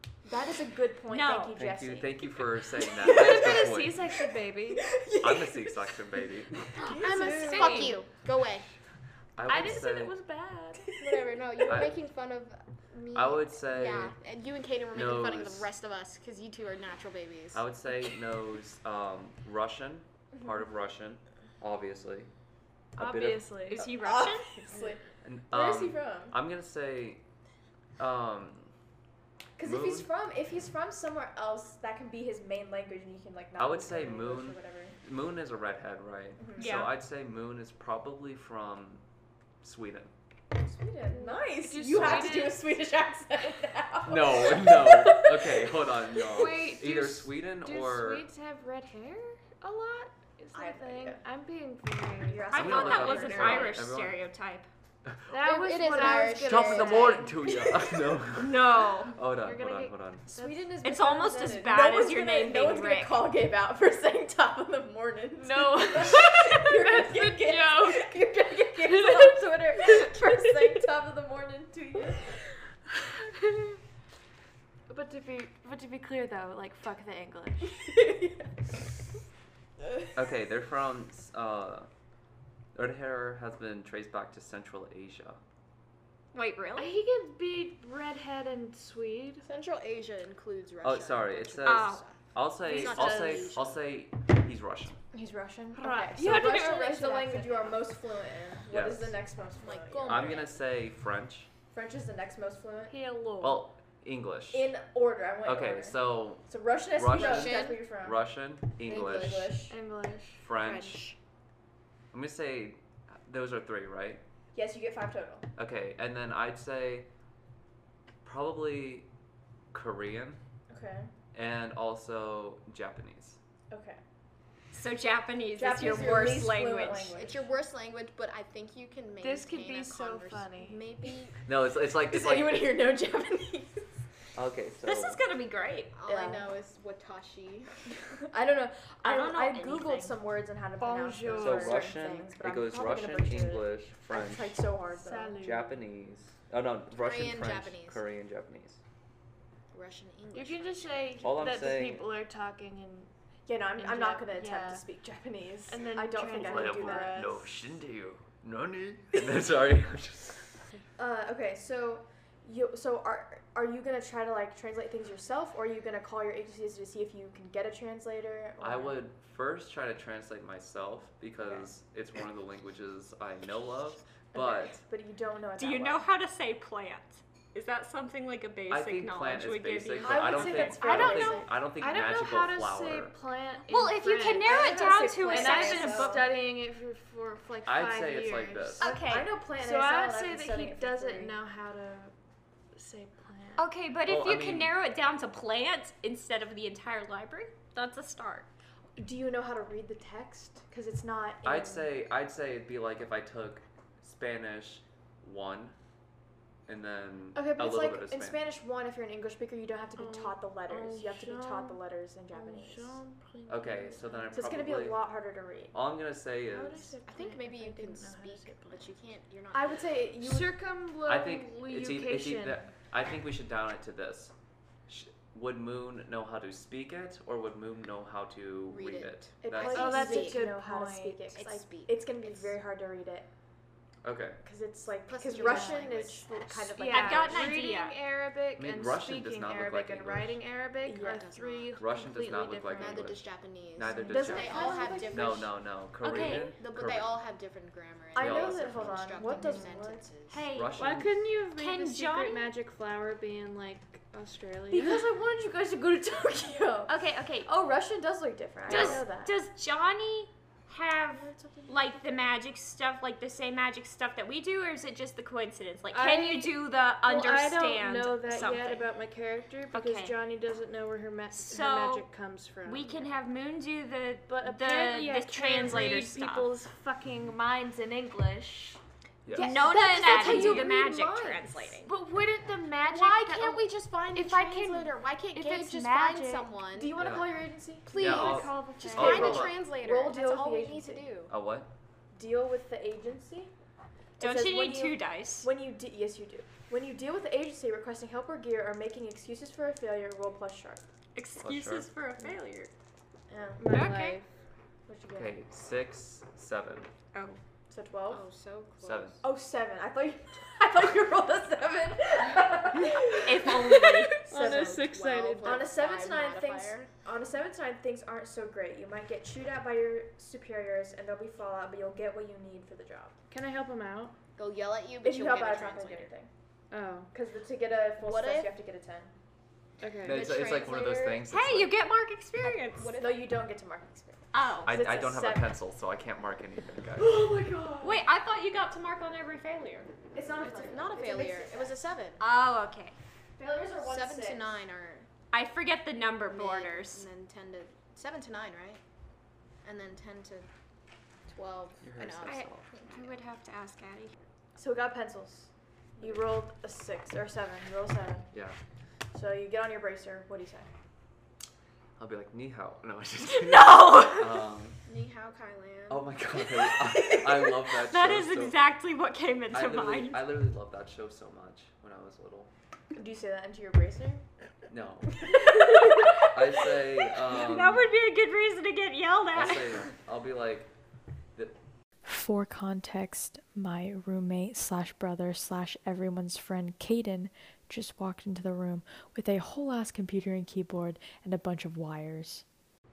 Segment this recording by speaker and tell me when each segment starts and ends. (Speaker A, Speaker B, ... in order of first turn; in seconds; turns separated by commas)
Speaker A: 0.2-2.4, Speaker B: 1.1-1.6, Speaker C: 1.6-4.1, Speaker D: 3.0-4.9, Speaker A: 3.0-3.7, Speaker C: 5.2-6.6, Speaker A: 6.8-7.9, Speaker D: 6.8-8.0, Speaker E: 7.0-8.7, Speaker B: 7.5-7.8, Speaker C: 9.4-10.1, Speaker D: 9.4-11.0, Speaker E: 11.0-17.7, Speaker C: 11.7-11.9, Speaker C: 13.1-14.1, Speaker C: 14.9-15.7, Speaker C: 17.5-22.3, Speaker C: 22.9-23.9, Speaker D: 23.0-23.9, Speaker B: 23.7-24.5, Speaker A: 24.0-26.4, Speaker C: 25.2-27.2, Speaker C: 28.0-28.7, Speaker A: 29.6-35.0, Speaker C: 29.6-30.1, Speaker C: 33.6-39.0, Speaker A: 36.4-36.9, Speaker B: 36.6-36.9, Speaker C: 39.6-40.1, Speaker A: 40.5-46.2, Speaker D: 41.1-42.6, Speaker C: 42.0-42.3, Speaker C: 44.0-48.2, Speaker D: 46.2-52.6, Speaker A: 50.5-51.2, Speaker A: 52.2-53.8, Speaker B: 52.5-54.7, Speaker C: 52.5-54.2, Speaker D: 55.3-57.5, Speaker E: 55.4-57.3, Speaker C: 56.4-60.3, Speaker B: 58.4-59.1, Speaker D: 59.3-60.8, Speaker A: 60.3-72.4, Speaker B: 60.8-63.3, Speaker D: 65.4-68.1, Speaker D: 68.8-70.7, Speaker D: 73.2-73.8, Speaker D: 74.9-77.8, Speaker A: 77.7-78.8, Speaker C: 80.1-81.9, Speaker C: 82.7-85.4, Speaker B: 86.3-87.0, Speaker D: 86.8-89.4, Speaker E: 89.4-93.7, Speaker C: 90.8-95.0, Speaker B: 91.6-92.0, Speaker D: 92.7-93.6, Speaker A: 95.1-100.5, Speaker D: 95.7-97.9, Speaker C: 98.7-99.2, Speaker E: 99.6-100.5, Speaker C: 100.1-101.5, Speaker A: 101.7-103.0, Speaker D: 102.9-103.7, Speaker C: 103.4-104.7, Speaker A: 104.5-108.3, Speaker C: 105.4-109.5, Speaker E: 107.1-107.8, Speaker E: 108.9-109.5, Speaker A: 108.9-109.8, Speaker D: 109.7-110.4, Speaker C: 110.4-111.1, Speaker E: 110.6-111.2, Speaker C: 112.1-114.2, Speaker A: 114.5-115.5, Speaker C: 115.6-117.1, Speaker C: 118.2-119.1, Speaker C: 119.7-120.4, Speaker A: 120.7-121.1, Speaker C: 121.3-123.4, Speaker A: 123.7-124.0, Speaker B: 124.7-127.2, Speaker A: 125.6-127.6, Speaker E: 127.0-131.4, Speaker D: 129.2-130.8, Speaker C: 131.4-132.8, Speaker A: 131.8-133.9, Speaker C: 134.3-135.2, Speaker B: 134.8-135.9, Speaker E: 135.9-137.7, Speaker A: 136.1-136.5, Speaker A: 138.1-145.4, Speaker B: 139.0-140.2, Speaker D: 140.8-141.9, Speaker C: 141.3-144.6, Speaker D: 144.9-145.8, Speaker C: 145.4-148.8, Speaker E: 146.9-148.0, Speaker E: 149.7-151.3, Speaker D: 150.3-153.1, Speaker C: 151.2-152.1, Speaker A: 153.4-157.4, Speaker D: 153.8-154.9, Speaker D: 155.7-157.4, Speaker C: 156.4-160.5, Speaker A: 161.0-169.0, Speaker C: 168.6-174.8, Speaker A: 171.4-171.7, Speaker A: 174.3-176.1, Speaker B: 175.6-180.8, Speaker C: 178.7-183.1, Speaker A: 180.0-181.6, Speaker D: 180.5-192.1, Speaker B: 183.7-186.2, Speaker A: 184.4-186.3, Speaker C: 187.7-188.9, Speaker B: 188.8-189.3, Speaker A: 188.8-191.4, Speaker D: 192.8-193.7, Speaker B: 193.6-198.5, Speaker C: 194.1-194.7, Speaker A: 199.0-201.9, Speaker C: 201.4-205.8, Speaker C: 206.7-208.4, Speaker A: 207.3-213.0, Speaker D: 210.0-214.5, Speaker C: 213.5-215.0, Speaker A: 214.3-215.8, Speaker C: 215.7-216.9, Speaker D: 216.5-218.9, Speaker E: 217.1-220.0, Speaker A: 219.5-220.6, Speaker D: 220.2-222.6, Speaker C: 221.1-224.3, Speaker C: 224.9-229.9, Speaker E: 228.7-230.5, Speaker A: 229.4-233.3, Speaker D: 229.7-231.2, Speaker E: 231.3-232.5, Speaker C: 234.0-234.4, Speaker A: 234.4-237.5, Speaker E: 235.1-236.3, Speaker D: 235.3-235.9, Speaker D: 236.5-243.2, Speaker B: 236.9-238.0, Speaker C: 238.6-240.4, Speaker A: 240.8-241.3, Speaker E: 241.0-241.8, Speaker C: 241.8-247.2, Speaker E: 242.8-245.5, Speaker A: 244.0-245.5, Speaker D: 244.5-244.8, Speaker B: 246.0-246.5, Speaker E: 246.2-250.4, Speaker A: 248.1-250.1, Speaker C: 248.2-249.3, Speaker D: 249.3-249.7, Speaker B: 250.3-250.9, Speaker C: 250.5-251.2, Speaker D: 250.8-255.0, Speaker B: 251.6-252.5, Speaker A: 254.7-256.9, Speaker B: 256.9-257.5, Speaker A: 257.4-259.3, Speaker B: 258.7-268.9, Speaker A: 261.1-261.8, Speaker D: 265.9-273.1, Speaker B: 269.7-270.1, Speaker B: 271.3-272.1, Speaker B: 272.6-276.5, Speaker D: 274.3-278.8, Speaker C: 279.2-279.5, Speaker A: 279.3-281.5, Speaker B: 279.4-281.9, Speaker E: 280.0-280.6, Speaker D: 280.1-280.6, Speaker D: 281.8-286.5, Speaker E: 282.9-286.9, Speaker A: 286.7-291.1, Speaker C: 287.0-287.3, Speaker E: 287.9-291.3, Speaker C: 287.9-289.6, Speaker D: 288.0-289.4, Speaker C: 291.3-291.7, Speaker A: 292.1-293.5, Speaker B: 294.2-295.5, Speaker A: 294.2-300.9, Speaker B: 301.1-302.7, Speaker C: 301.4-301.9, Speaker A: 303.3-304.0, Speaker D: 303.6-304.3, Speaker B: 303.7-304.2, Speaker A: 304.9-305.4, Speaker C: 305.1-306.9, Speaker B: 307.1-307.4, Speaker A: 307.7-308.2, Speaker E: 308.1-309.2, Speaker C: 308.8-309.2, Speaker A: 309.2-323.1, Speaker B: 313.1-314.1, Speaker D: 314.2-315.6, Speaker E: 314.5-316.9, Speaker D: 323.3-324.1, Speaker E: 324.4-326.1, Speaker A: 325.0-326.3, Speaker D: 326.7-327.1, Speaker A: 327.1-329.1, Speaker E: 328.0-328.5, Speaker D: 329.8-330.4, Speaker C: 330.0-331.8, Speaker E: 330.0-331.2, Speaker B: 331.3-332.9, Speaker E: 332.4-333.4, Speaker A: 333.0-335.6, Speaker B: 334.3-334.7, Speaker C: 334.6-337.2, Speaker A: 337.0-338.1, Speaker B: 337.8-339.9, Speaker A: 340.1-341.8, Speaker E: 340.4-342.2, Speaker B: 342.2-343.0, Speaker A: 343.4-344.5, Speaker E: 343.8-345.1, Speaker B: 345.3-347.1, Speaker E: 346.3-348.8, Speaker E: 349.6-350.5, Speaker E: 351.3-353.1, Speaker C: 351.8-352.7, Speaker B: 352.2-354.1, Speaker A: 354.6-358.3, Speaker C: 358.3-358.6, Speaker A: 359.1-360.7, Speaker C: 362.0-364.8, Speaker B: 363.8-364.2, Speaker E: 364.9-367.3, Speaker C: 365.9-368.6, Speaker B: 367.9-370.2, Speaker C: 369.5-372.5, Speaker A: 372.9-374.2, Speaker C: 374.7-375.5, Speaker A: 375.2-376.3, Speaker C: 376.1-377.9, Speaker B: 377.3-379.8, Speaker C: 379.3-380.7, Speaker F: 382.1-392.4